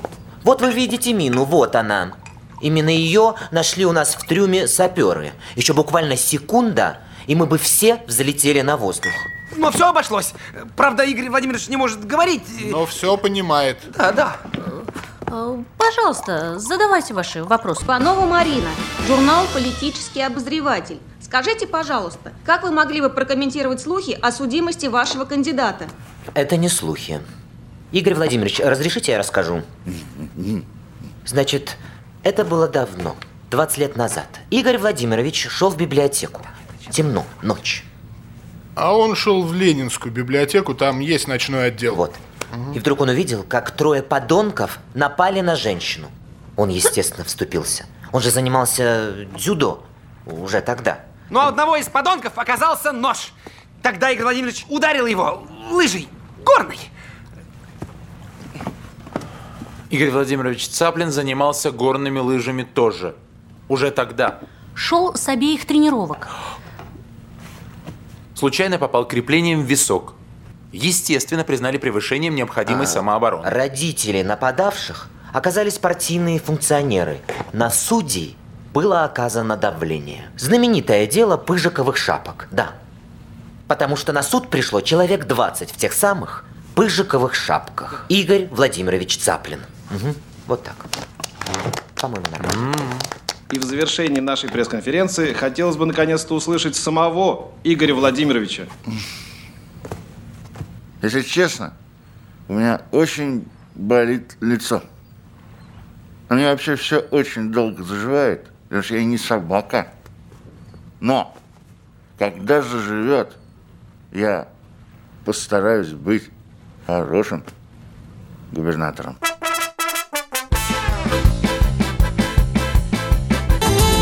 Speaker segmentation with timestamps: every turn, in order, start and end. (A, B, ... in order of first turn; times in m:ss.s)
0:00.4-0:09.3 A
0:09.5-0:12.8 B
0:12.7-0:13.8 C
0:13.9-0:14.4 B
0:15.3-0:17.7 D
0:17.7-0:25.9 E
0:26.3-0:27.2 A
0:27.9-0:29.7 A
0:31.2-0:37.8 A
0:38.8-0:42.0 C
0:41.9-0:42.2 A
0:42.7-0:51.0 A
0:51.3-0:56.9 B
0:59.9-1:03.1 F
1:03.7-1:04.4 F
1:04.8-1:06.3 D
1:08.3-1:10.1 F
1:10.7-1:13.5 F
1:12.6-1:22.7 A
1:23.7-1:30.9 A
1:32.0-1:32.6 A
1:32.5-1:33.0 F
1:33.5-1:38.7 G
1:41.0-1:41.7 H
1:42.5-1:44.8 H
1:46.3-1:49.9 H
1:51.0-1:51.3 H
1:52.2-1:53.4 H
1:54.1-1:54.5 H
1:55.2-1:56.3 H
1:56.9-1:57.4 H
1:58.5-1:59.2 H